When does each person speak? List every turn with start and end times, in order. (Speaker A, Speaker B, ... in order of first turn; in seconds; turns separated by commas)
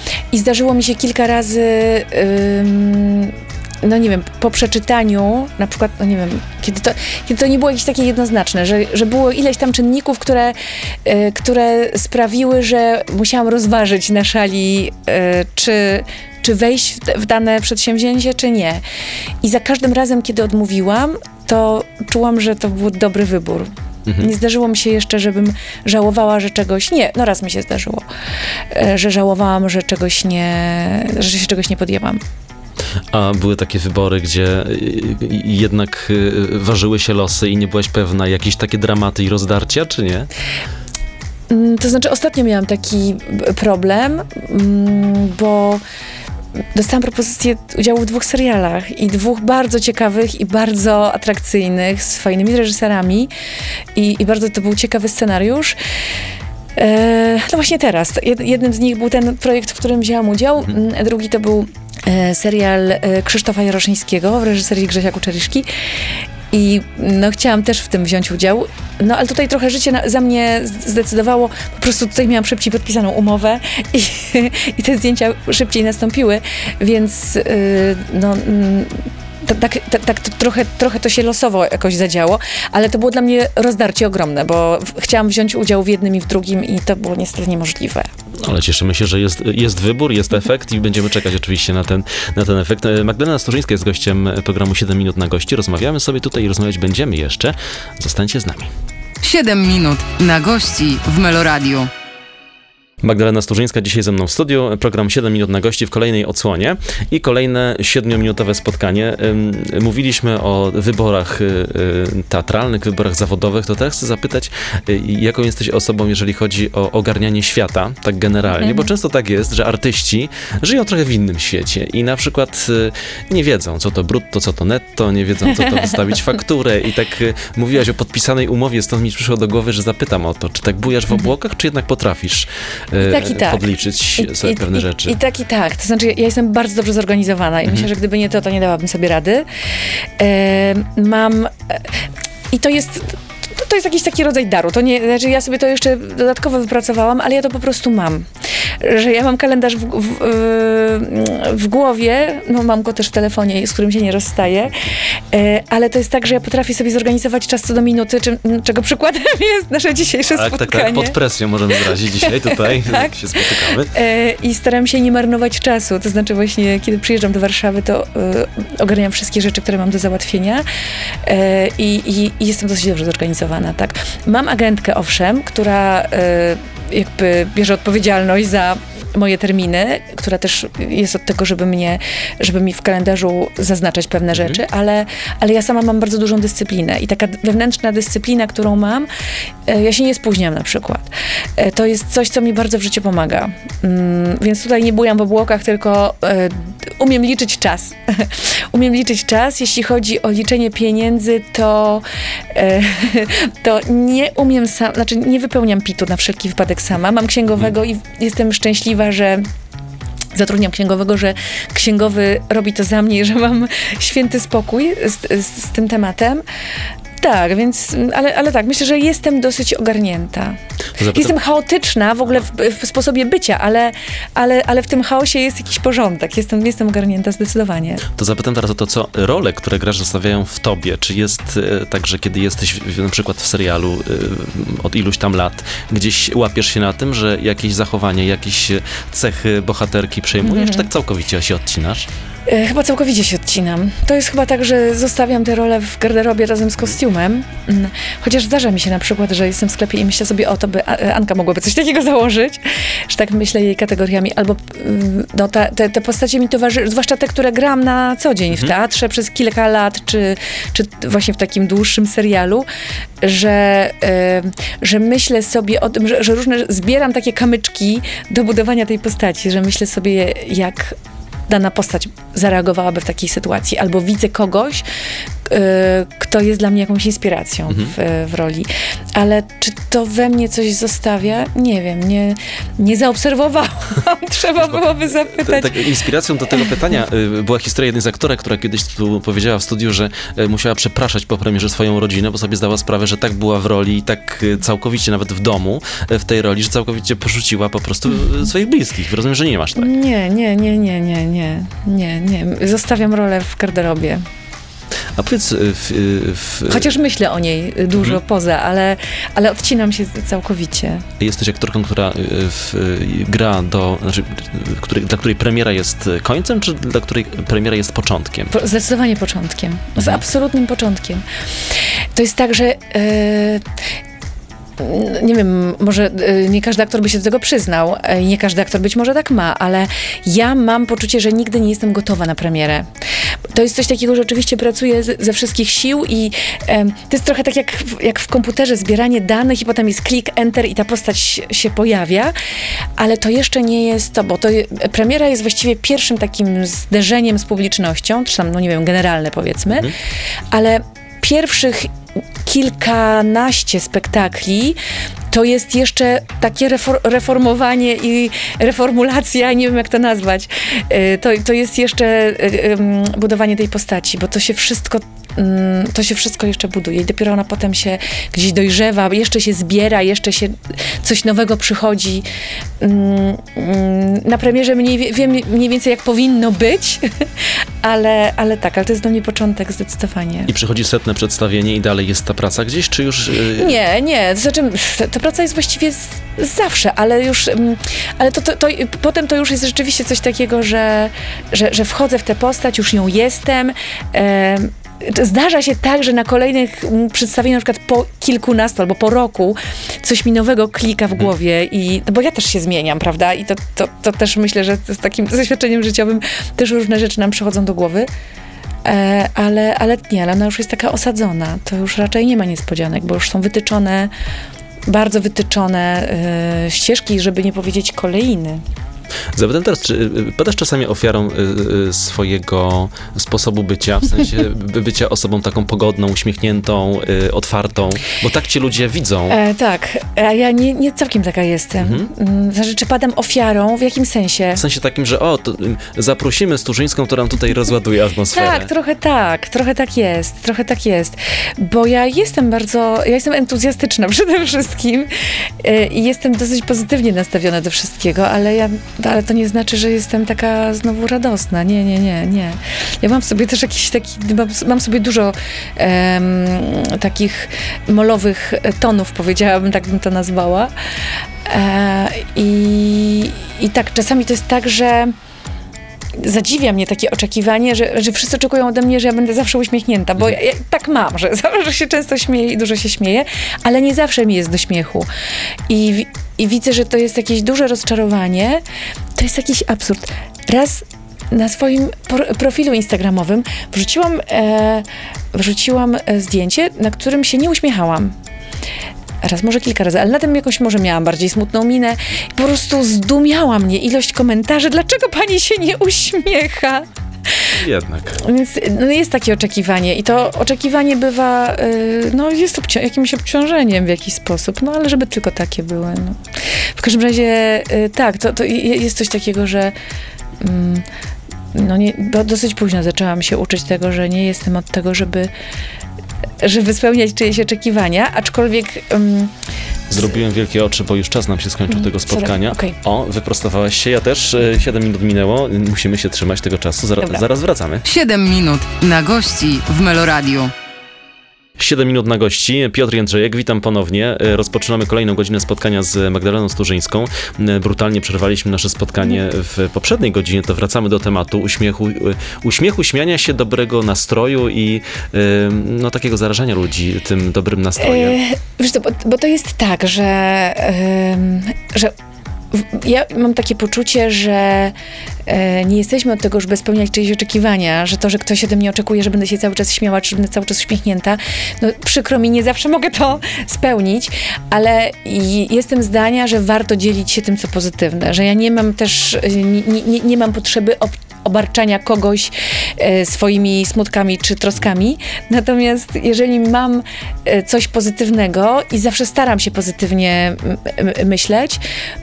Speaker A: 0.3-18.8, Speaker A: 19.4-28.1, Speaker A: 28.7-32.2, Speaker B: 33.1-40.3, Speaker A: 41.5-45.8, Speaker A: 46.7-53.3, Speaker A: 53.9-55.8, Speaker A: 56.8-65.7, Speaker A: 66.5-88.1, Speaker B: 88.4-98.7, Speaker C: 99.2-101.9, Speaker B: 103.0-135.2, Speaker A: 118.6-118.8, Speaker A: 133.0-139.4, Speaker A: 140.2-141.8, Speaker A: 142.5-148.3, Speaker A: 148.8-161.2, Speaker B: 160.3-163.9, Speaker A: 162.2-170.6, Speaker A: 171.2-189.1, Speaker B: 184.3-184.6, Speaker A: 189.7-209.4, Speaker A: 210.3-216.4, Speaker A: 217.2-220.6, Speaker B: 221.0-221.3, Speaker A: 221.1-228.0, Speaker B: 228.1-242.1, Speaker A: 240.4-240.8, Speaker A: 242.5-262.7, Speaker A: 263.2-271.0, Speaker A: 271.5-274.8, Speaker A: 275.4-286.0, Speaker B: 285.4-299.9, Speaker A: 299.8-304.2, Speaker B: 305.1-306.9, Speaker A: 306.7-311.1, Speaker B: 311.2-318.5, Speaker A: 318.5-321.2, Speaker A: 322.1-323.6, Speaker A: 324.8-332.9, Speaker A: 333.5-342.3, Speaker A: 343.0-349.9, Speaker A: 350.5-351.9, Speaker A: 352.4-354.8, Speaker A: 355.3-372.2, Speaker A: 372.8-377.1, Speaker A: 377.8-380.5, Speaker B: 380.5-383.8, Speaker A: 383.5-408.1, Speaker A: 408.8-414.1, Speaker A: 414.9-418.6, Speaker B: 419.3-429.4, Speaker A: 429.3-434.6, Speaker B: 431.8-432.1, Speaker B: 434.6-438.7, Speaker A: 438.3-460.7, Speaker A: 461.4-465.1, Speaker A: 466.2-475.1, Speaker A: 475.7-478.6, Speaker A: 479.1-488.1, Speaker A: 489.2-496.9, Speaker B: 497.5-498.2, Speaker A: 498.1-506.2, Speaker A: 506.8-509.7, Speaker A: 510.4-510.9, Speaker A: 511.5-515.3, Speaker A: 516.4-519.3, Speaker B: 519.9-527.8, Speaker A: 521.7-522.8, Speaker C: 527.8-530.5, Speaker B: 531.6-548.2, Speaker A: 547.8-551.9, Speaker A: 552.5-554.7, Speaker A: 555.2-581.6